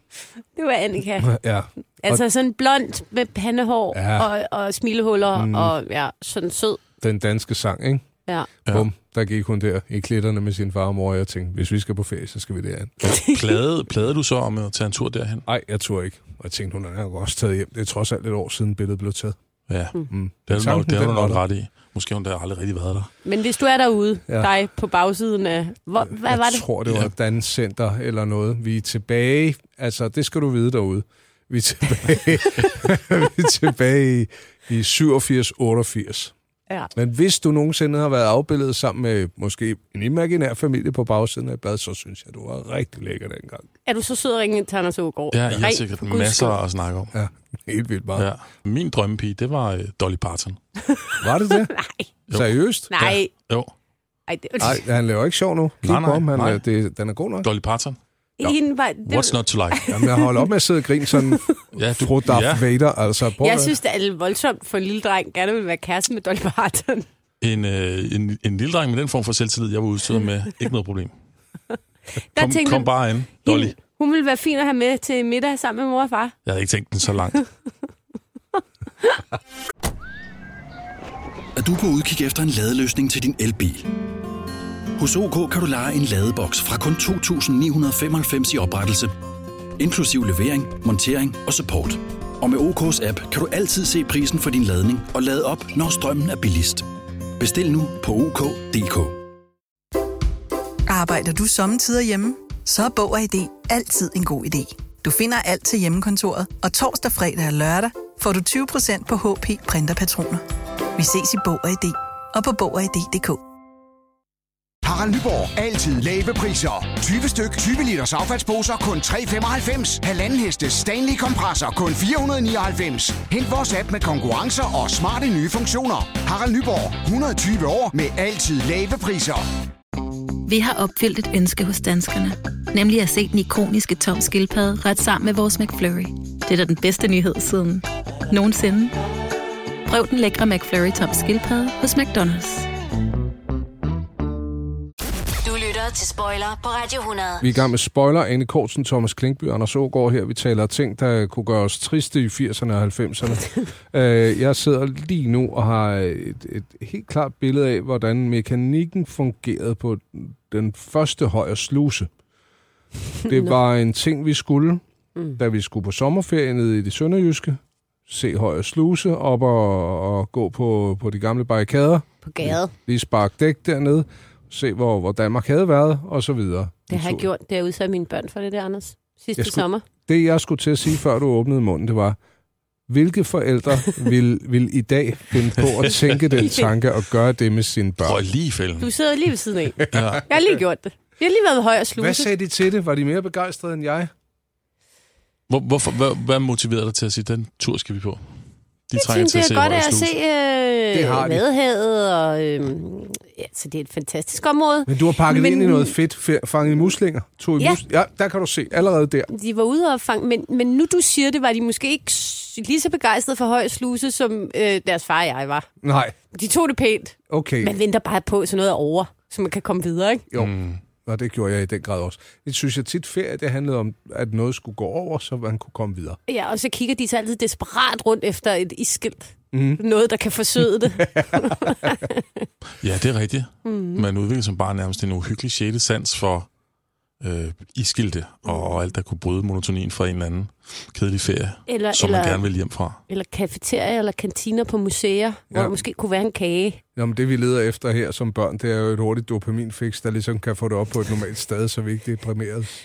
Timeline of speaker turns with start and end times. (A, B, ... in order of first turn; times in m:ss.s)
0:00.2-0:01.3 A
0:01.2-0:02.2 B
0:02.0-0:06.8 A
0:03.9-0:04.3 B
0:05.4-0:05.7 B
0:07.0-0:08.0 B
0:08.7-0:12.9 B
0:13.0-0:13.5 A
0:13.2-0:15.4 C
0:15.5-0:19.4 B
0:19.7-0:20.0 C
0:20.1-0:21.4 B
0:20.5-0:23.1 C
0:23.2-0:26.6 A
0:26.1-0:36.3 B
0:37.0-0:43.7 B
0:43.9-0:46.6 A
0:45.3-0:47.1 C
0:47.1-0:48.3 B
0:48.2-0:50.6 C
0:50.9-0:52.1 A
0:51.2-0:51.7 B
0:52.3-0:53.7 C
0:52.3-0:52.9 B
0:52.9-0:53.3 A
0:54.3-0:54.8 A
0:54.6-0:57.5 B
0:55.8-0:56.6 C
0:57.4-0:59.8 C
0:58.4-1:00.5 A
0:59.9-1:01.4 B
1:01.1-1:01.5 A
1:01.7-1:02.7 C
1:02.0-1:03.8 B
1:03.4-1:07.1 A
1:07.4-1:11.1 C
1:12.3-1:12.9 A
1:12.4-1:13.8 C
1:13.4-1:16.4 A
1:16.4-1:17.4 C
1:21.6-1:23.9 D
1:25.0-1:29.2 D
1:29.8-1:36.9 D
1:37.4-1:39.2 D
1:40.9-1:50.4 E
1:51.0-1:53.4 E
1:54.8-2:09.4 F
2:10.5-2:19.0 G
2:19.9-2:22.7 G
2:25.4-2:27.5 H
2:27.4-2:42.1 B
2:43.2-2:43.5 A
2:43.3-2:44.8 B
2:45.4-2:57.2 B
2:52.2-2:52.7 A
2:56.9-2:59.8 A
2:59.4-3:02.2 B
3:02.9-3:08.2 B
3:05.6-3:05.9 C
3:06.4-3:06.7 A
3:08.0-3:08.9 C
3:08.8-3:12.3 A
3:09.9-3:10.2 C
3:12.0-3:14.1 B
3:15.5-3:18.2 C
3:18.9-3:20.1 C
3:19.0-3:25.9 A
3:20.9-3:21.4 B
3:24.9-3:29.3 B
3:29.3-3:35.7 A
3:35.8-3:36.2 B
3:36.3-3:40.3 A
3:37.3-3:37.7 B
3:40.4-3:40.8 C
3:41.0-3:46.2 B
3:46.3-3:52.4 A
3:49.5-3:49.8 B
3:51.0-3:51.5 B
3:52.8-3:56.5 C
3:53.6-3:54.0 A
3:57.2-4:03.0 C
4:01.7-4:02.4 A
4:03.1-4:06.8 A
4:05.5-4:05.8 B
4:07.0-4:12.7 B